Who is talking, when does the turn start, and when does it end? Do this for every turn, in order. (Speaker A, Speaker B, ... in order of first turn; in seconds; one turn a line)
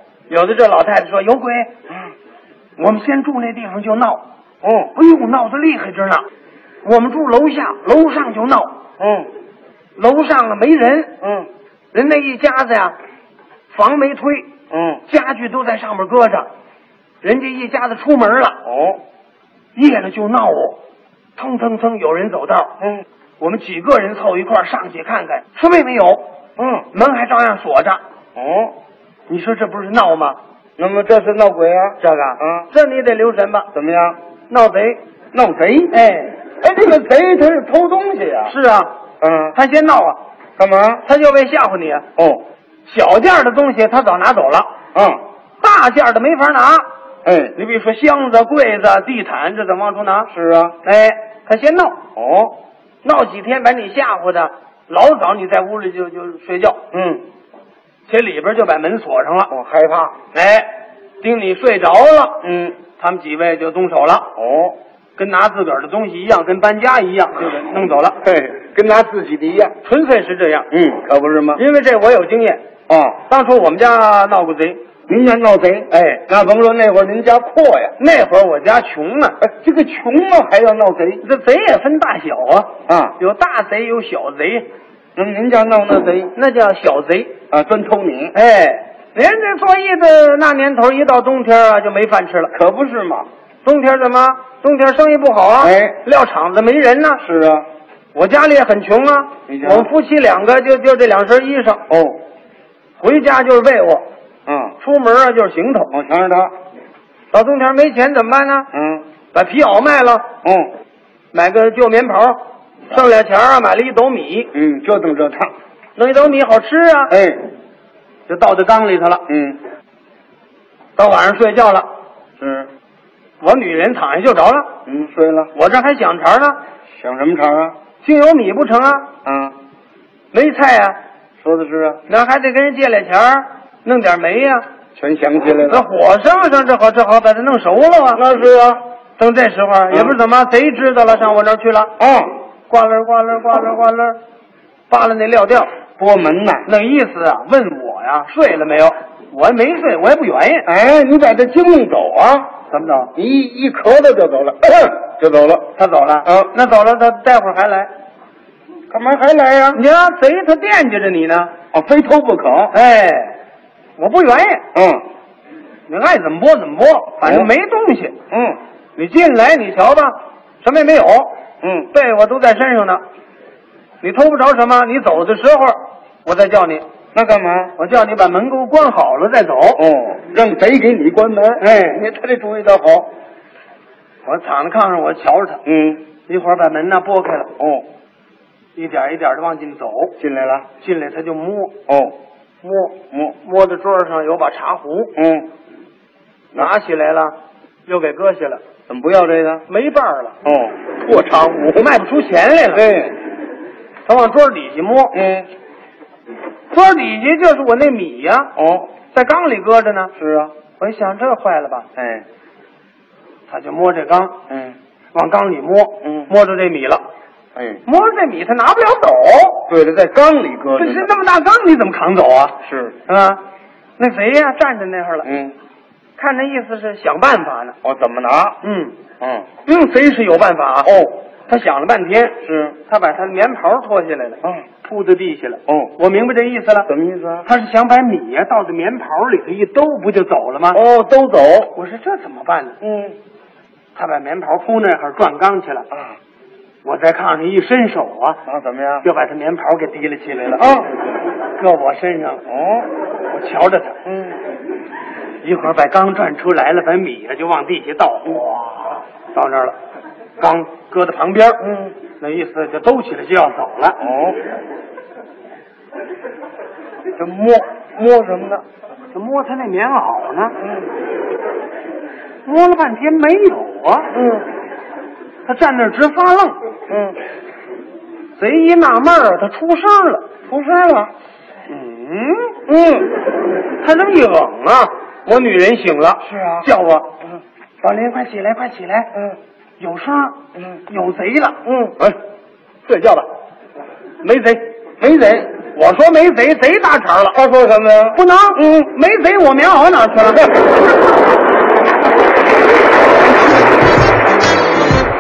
Speaker A: 0.3-1.7
Speaker A: 2.8-4.2
Speaker B: 4.6-4.9
Speaker A: 4.9-6.2
Speaker A: 6.8-8.7
Speaker B: 9.0-9.3
Speaker A: 10.0-11.1
Speaker B: 11.2-11.5
Speaker A: 11.9-13.0
Speaker A: 13.7-14.5
Speaker B: 14.7-15.0
Speaker A: 15.1-16.5
Speaker A: 17.2-18.6
Speaker B: 18.6-19.0
Speaker A: 19.8-20.8
Speaker A: 21.4-22.7
Speaker B: 22.8-23.1
Speaker A: 23.4-26.2
Speaker B: 26.6-26.9
Speaker A: 26.9-28.0
Speaker B: 28.4-28.8
Speaker A: 29.3-30.4
Speaker B: 30.8-32.7
Speaker A: 32.0-33.7
Speaker B: 33.7-34.2
Speaker A: 34.5-35.0
Speaker B: 35.3-35.9
Speaker A: 35.9-36.4
Speaker B: 36.6-38.5
Speaker A: 38.5-38.9
Speaker B: 39.2-39.5
Speaker A: 39.5-40.2
Speaker B: 40.6-41.0
Speaker A: 41.0-42.0
Speaker B: 42.2-42.4
Speaker A: 42.9-44.7
Speaker B: 44.9-45.2
Speaker A: 45.6-46.9
Speaker B: 47.2-47.5
Speaker A: 47.5-50.3
Speaker B: 50.3-50.8
Speaker A: 50.8-52.0
Speaker B: 52.2-52.6
Speaker A: 53.0-56.8
Speaker B: 56.9-57.2
Speaker A: 58.1-59.5
Speaker B: 59.5-60.1
Speaker A: 60.3-60.7
Speaker A: 61.2-62.4
Speaker B: 62.4-62.8
Speaker A: 63.0-64.3
Speaker B: 64.4-64.8
Speaker A: 65.2-68.2
Speaker B: 68.2-69.8
Speaker A: 69.8-70.7
Speaker B: 70.7-71.6
Speaker A: 71.6-72.6
Speaker B: 72.9-73.2
Speaker A: 73.3-74.8
Speaker B: 75.1-78.0
Speaker A: 75.9-76.2
Speaker A: 78.0-79.4
Speaker B: 79.4-81.2
Speaker A: 81.2-84.7
Speaker B: 82.9-83.2
Speaker B: 85.2-86.3
Speaker A: 86.3-87.3
Speaker B: 87.5-88.3
Speaker A: 88.3-92.5
Speaker B: 92.5-93.3
Speaker A: 93.6-97.2
Speaker B: 95.6-96.0
Speaker B: 97.2-97.7
Speaker A: 98.1-101.8
Speaker B: 99.5-99.9
Speaker B: 101.9-102.2
Speaker A: 103.0-104.0
Speaker B: 104.5-104.8
Speaker A: 104.8-105.9
Speaker B: 105.9-106.5
Speaker A: 107.3-108.7
Speaker B: 108.7-109.0
Speaker A: 109.3-110.2
Speaker B: 110.4-110.7
Speaker A: 111.3-114.5
Speaker B: 114.5-115.5
Speaker A: 116.0-117.1
Speaker B: 117.1-117.4
Speaker A: 118.3-119.2
Speaker B: 119.3-119.6
Speaker A: 121.0-121.9
Speaker B: 122.4-122.7
Speaker A: 123.4-124.7
Speaker B: 124.9-125.5
Speaker A: 125.5-126.6
Speaker B: 127.0-127.8
Speaker A: 128.0-129.1
Speaker B: 129.2-129.6
Speaker A: 130.3-131.0
Speaker B: 131.4-132.0
Speaker A: 132.1-134.7
Speaker B: 135.0-135.9
Speaker A: 135.7-138.2
Speaker B: 138.2-138.8
Speaker A: 139.2-141.9
Speaker B: 139.9-140.2
Speaker B: 142.0-142.3
Speaker A: 142.7-144.2
Speaker A: 144.9-145.7
Speaker B: 146.0-146.7
Speaker A: 146.7-150.7
Speaker B: 150.7-152.6
Speaker A: 152.7-153.1
Speaker B: 153.2-155.7
Speaker A: 155.8-157.9
Speaker B: 156.2-156.5
Speaker B: 158.9-159.8
Speaker A: 159.7-161.5
Speaker B: 161.7-162.7
Speaker A: 162.7-163.4
Speaker A: 164.0-164.6
Speaker B: 164.7-165.0
Speaker A: 165.9-168.2
Speaker B: 167.2-167.5
Speaker B: 168.3-168.6
Speaker A: 169.0-171.4
Speaker B: 171.6-171.9
Speaker A: 171.9-173.0
Speaker A: 174.0-176.8
Speaker B: 177.1-177.7
Speaker A: 177.8-179.8
Speaker B: 179.8-183.1
Speaker A: 181.6-182.0
Speaker A: 184.2-185.6
Speaker B: 185.7-186.0
Speaker A: 186.3-187.5
Speaker B: 187.6-187.9
Speaker A: 188.8-190.2
Speaker B: 190.2-190.7
Speaker A: 190.8-191.8
Speaker B: 191.9-192.2
Speaker A: 192.6-195.1
Speaker B: 192.9-193.4
Speaker B: 195.2-195.5
Speaker A: 196.6-197.3
Speaker A: 197.9-198.6
Speaker B: 198.9-199.7
Speaker A: 199.7-200.4
Speaker B: 200.4-200.8
Speaker A: 200.9-202.9
Speaker B: 202.7-203.2
Speaker A: 204.1-205.2
Speaker B: 205.1-205.5
Speaker A: 206.7-208.5
Speaker B: 208.6-208.9
Speaker A: 209.1-210.1
Speaker B: 210.2-210.5
Speaker A: 210.8-211.9
Speaker B: 212.0-212.2
Speaker A: 213.5-214.3
Speaker B: 214.5-214.8
Speaker A: 215.1-217.0
Speaker B: 216.0-216.3
Speaker B: 217.6-217.8
Speaker A: 217.9-219.7
Speaker B: 219.7-221.1
Speaker A: 220.8-222.6
Speaker B: 222.6-223.0
Speaker A: 223.1-223.4
Speaker A: 224.0-225.3
Speaker B: 225.2-225.5
Speaker A: 226.2-227.8
Speaker B: 227.8-228.6
Speaker A: 228.6-229.0
Speaker B: 229.2-229.5
Speaker A: 229.6-236.9
Speaker B: 230.8-231.1
Speaker B: 232.4-232.8
Speaker B: 235.7-235.9
Speaker B: 236.9-237.5
Speaker A: 237.5-240.8
Speaker B: 240.7-241.7
Speaker A: 241.8-242.8
Speaker B: 242.8-243.2
Speaker A: 243.9-245.9
Speaker A: 246.8-248.4
Speaker B: 248.5-249.1
Speaker A: 249.0-250.7
Speaker B: 250.6-250.9
Speaker A: 251.6-252.4
Speaker B: 252.5-252.9
Speaker A: 253.3-254.0
Speaker B: 254.1-254.4
Speaker A: 255.4-259.8
Speaker A: 260.4-261.6
Speaker B: 261.6-261.9
Speaker A: 262.2-264.0
Speaker B: 264.0-264.4
Speaker B: 267.2-268.6
Speaker A: 269.1-270.6
Speaker A: 272.4-274.3
Speaker A: 275.4-276.6
Speaker B: 276.9-277.2
Speaker A: 278.4-280.3
Speaker B: 280.5-281.1
Speaker A: 281.7-282.6
Speaker B: 282.7-283.1
Speaker A: 283.8-287.1
Speaker B: 286.2-286.7
Speaker A: 287.8-289.1
Speaker A: 289.8-291.6
Speaker B: 291.7-292.1
Speaker A: 292.9-293.3
Speaker A: 294.2-294.6
Speaker B: 295.0-295.5
Speaker A: 295.6-297.4
Speaker B: 297.3-298.9
Speaker A: 298.1-300.5
Speaker B: 300.4-300.6